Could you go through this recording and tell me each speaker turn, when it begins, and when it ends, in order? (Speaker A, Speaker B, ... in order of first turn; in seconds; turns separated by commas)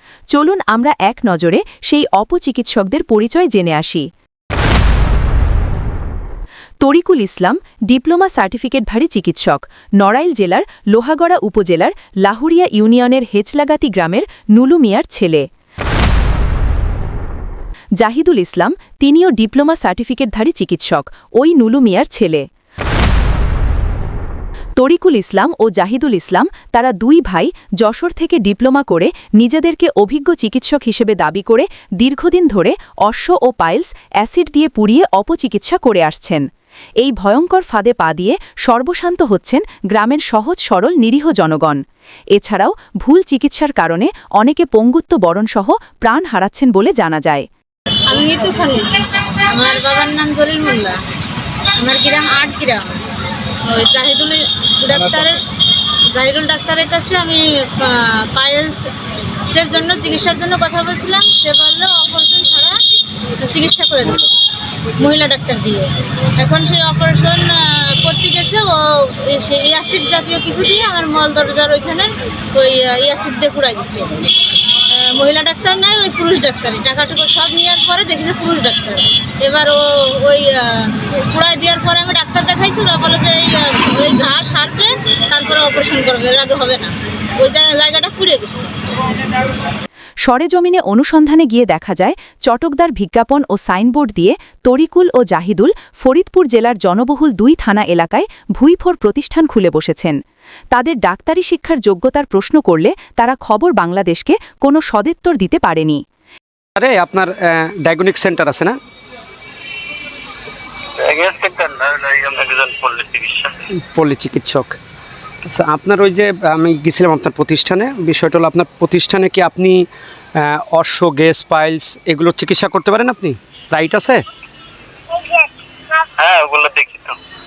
Speaker A: 0.3-4.1, Speaker A: 6.8-15.5, Speaker A: 18.0-22.4, Speaker A: 24.8-36.4, Speaker A: 37.0-41.8, Speaker A: 42.4-47.5, Speaker B: 48.1-48.9, Speaker B: 49.5-51.0, Speaker B: 51.8-53.0, Speaker B: 53.6-55.4, Speaker B: 56.1-58.9, Speaker B: 59.5-62.8, Speaker B: 63.4-64.3, Speaker B: 65.0-74.2, Speaker B: 74.9-88.7, Speaker A: 90.3-100.2, Speaker A: 100.7-106.0, Speaker C: 106.8-108.8, Speaker D: 111.0-113.5, Speaker C: 113.9-114.8, Speaker C: 115.5-119.8, Speaker C: 120.4-124.2, Speaker D: 126.2-127.2